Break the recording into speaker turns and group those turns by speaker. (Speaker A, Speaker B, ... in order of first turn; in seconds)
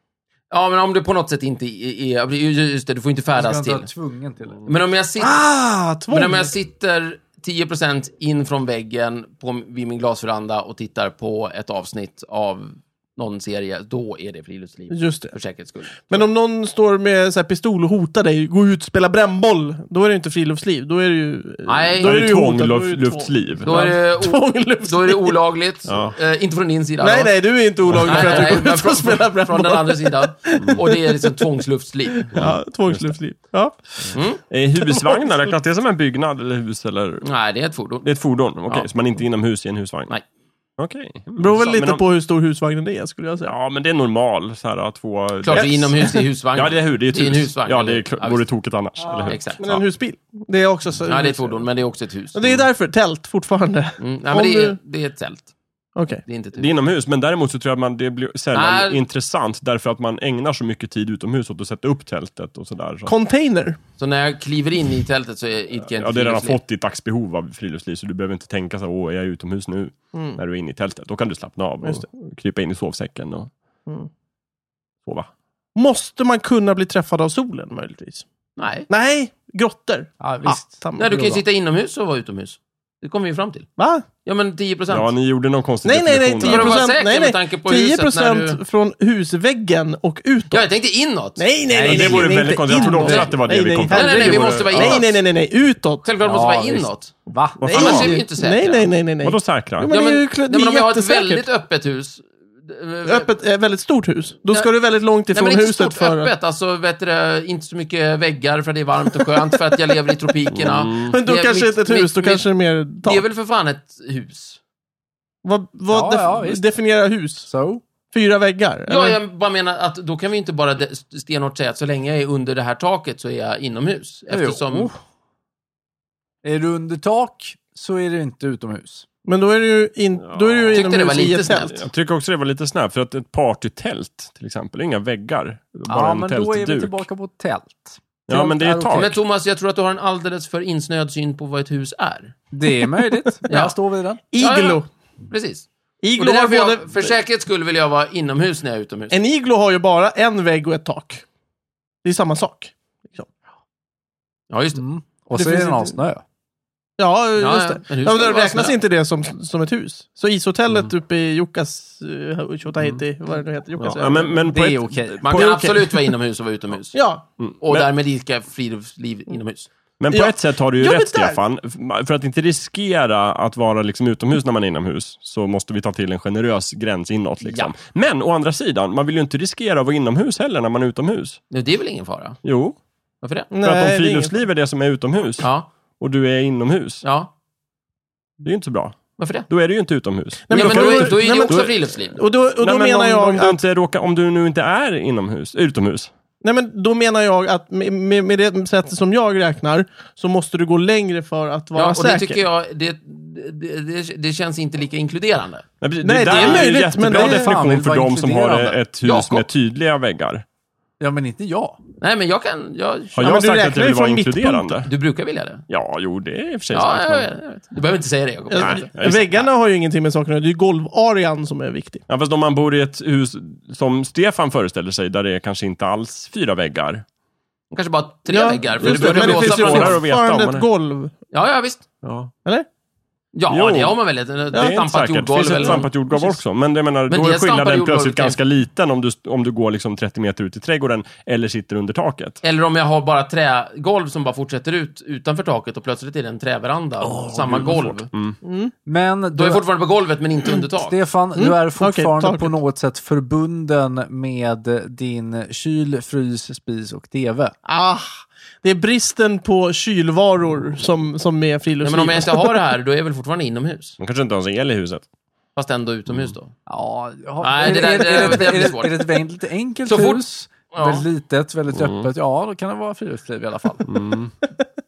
Speaker A: 0.5-3.9, 4.7-5.3, 6.1-16.3, 21.6-22.2, 23.6-27.3, 27.9-32.3, 34.1-34.4, 37.2-38.1, 45.4-48.4, 49.2-49.6, 51.1-52.6, 54.0-55.5, 56.2-56.7, 58.5-59.0, 64.0-66.6, 78.6-78.9, 81.0-83.7, 84.2-85.1, 86.4-88.6, 90.5-95.0, 96.0-97.1, 97.7-98.9, 99.9-103.3, 105.3-112.5, 113.0-114.6, 118.9-124.9, 130.7-131.8, 138.9-142.3, 143.5-143.7, 144.4-149.2, 154.5-154.8, 157.4-158.8, 165.2-169.7, 177.4-177.7, 181.5-182.4, 183.2-183.5, 185.4-185.7, 187.0-187.3, 189.2-189.5, 190.5-192.2, 201.8-205.6, 209.0-209.4, 212.0-213.2, 214.8-215.6, 216.7-219.1, 227.7-230.0, 231.3-231.9, 233.3-235.9, 237.1-238.4, 242.4-248.1, 249.3-250.9, 261.8-263.9, 265.6-266.5, 267.4-269.0, 269.9-271.1
Speaker B: 3.3-4.7, 80.2-80.8, 96.2-98.2, 115.9-116.7, 117.5-117.8, 124.3-125.0, 126.4-129.1, 135.9-139.1, 142.5-144.2, 154.8-156.2, 164.4-165.2, 207.0-208.8, 211.0-211.8, 247.1-247.9, 248.8-249.6, 250.8-257.5, 266.7-273.9
Speaker C: 5.2-6.5, 14.9-15.3, 16.0-25.4, 27.0-31.4, 32.2-34.2, 34.8-35.5, 41.4-43.5, 49.6-51.7, 52.3-54.8, 56.0-56.2, 63.1-63.8, 70.1-70.4, 75.7-78.2, 78.9-81.4, 83.8-84.0, 85.8-90.7, 91.4-96.0, 97.7-101.4, 103.0-106.3, 110.6-113.2, 115.4-117.5, 118.1-119.2, 129.2-131.8, 144.3-144.9, 146.0-147.1, 149.1-151.2, 152.0-153.3, 155.3-155.9, 157.0-164.5, 165.3-166.1, 166.9-167.2, 170.1-171.4, 183.5-184.3, 190.5-193.6, 196.4-202.4, 206.0-207.5, 213.2-214.7, 218.5-222.0, 228.3-231.1, 235.6-236.3, 248.4-248.7, 251.3-252.5, 257.6-262.6
Speaker D: 22.0-23.9, 25.9-26.1, 27.9-28.3, 32.3-33.1, 34.5-37.2, 38.0-40.1, 40.8-42.0, 43.4-49.8, 56.5-63.1, 65.9-73.5, 84.9-86.8, 91.8-95.0, 97.6-98.2, 99.2-99.9, 110.6-111.1, 130.2-130.9, 131.7-137.0, 138.3-139.2, 163.8-165.5, 167.4-167.9, 170.0-181.4, 182.4-182.8, 183.6-185.5, 186.0-187.0, 188.4-191.8, 192.6-196.1, 205.8-210.4, 213.2-214.9, 215.7-217.3, 218.6-219.4, 222.1-227.0, 228.8-230.7, 232.0-232.3, 233.5-233.9, 234.5-242.4, 247.5-248.3, 264.0-265.1, 266.1-266.3, 271.7-272.1, 273.9-274.3